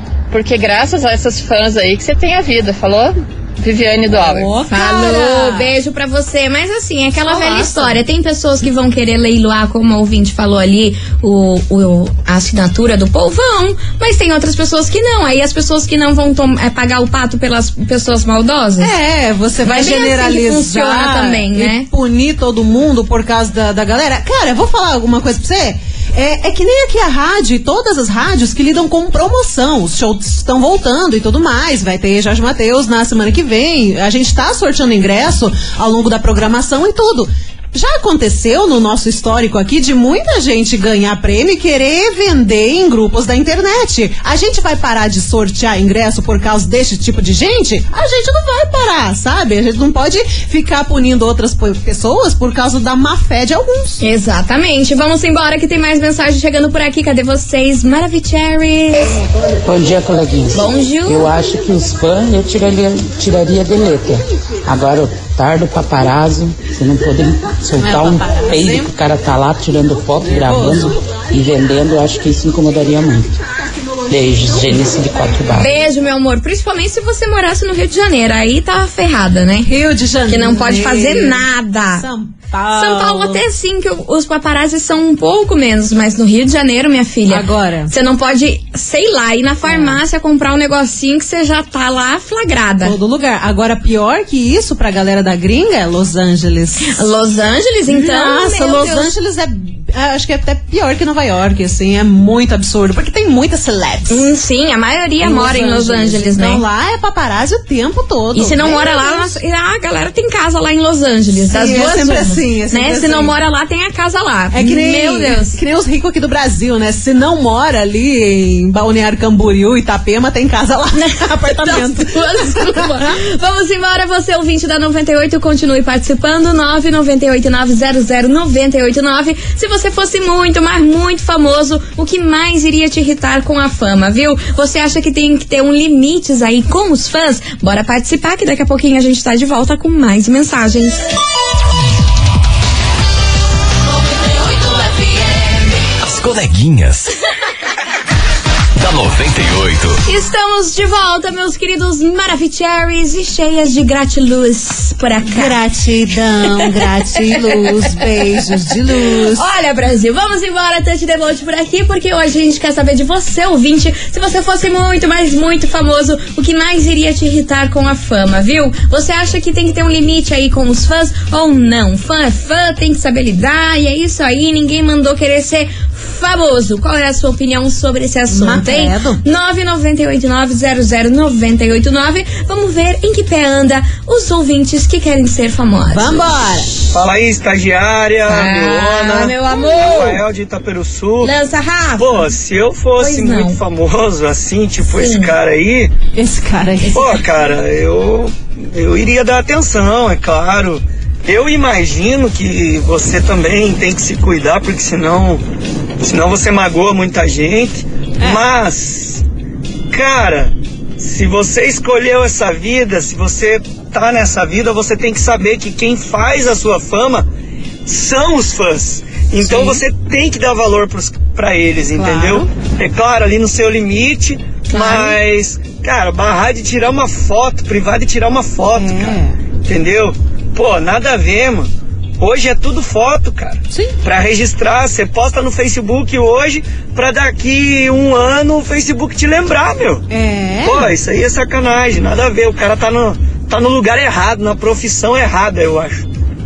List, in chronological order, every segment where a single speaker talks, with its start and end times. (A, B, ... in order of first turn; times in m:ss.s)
0:00.3-0:04.5 A
0:04.1-0:05.7 B
0:04.6-0:18.9 C
0:07.1-0:08.0 B
0:18.8-0:54.0 B
0:19.6-0:21.9 C
0:54.0-0:59.2 C
0:59.6-1:13.3 D
1:00.5-1:01.3 C
1:07.8-1:08.9 B
1:10.4-1:11.0 B
1:14.1-1:15.7 D
1:15.6-1:19.7 C
1:19.6-1:23.4 B
1:20.3-1:22.1 C
1:22.7-1:33.0 C
1:27.3-1:27.9 B
1:29.6-1:30.0 B
1:32.8-1:37.0 B
1:36.8-1:39.1 C
1:37.9-1:44.3 B
1:44.1-1:46.6 C
1:45.2-1:49.4 B
1:48.3-1:55.6 C
1:51.4-1:53.4 B
1:54.5-2:03.2 B
2:00.9-2:21.0 C
2:26.0-2:27.1 E
2:28.8-2:30.0 E
2:30.0-2:35.5 C
2:35.2-2:39.4 B
2:39.0-3:06.4 C
2:58.3-2:59.2 B
3:05.9-3:06.7 B
3:06.9-3:11.3 F
3:08.3-3:10.2 C
3:11.2-3:12.3 C
3:12.0-3:15.9 F
3:13.0-3:13.6 C
3:14.9-3:15.3 C
3:16.1-3:17.2 B
3:16.8-3:17.2 C
3:16.9-3:25.4 F
3:26.0-3:29.2 F
3:29.9-3:37.3 F
3:37.8-4:00.0 F
3:39.4-3:39.8 B
3:41.9-3:42.5 B
3:44.7-3:45.2 C
3:48.7-3:49.4 B
3:53.7-3:54.0 B
4:00.1-4:00.9 B
4:00.6-4:06.0 F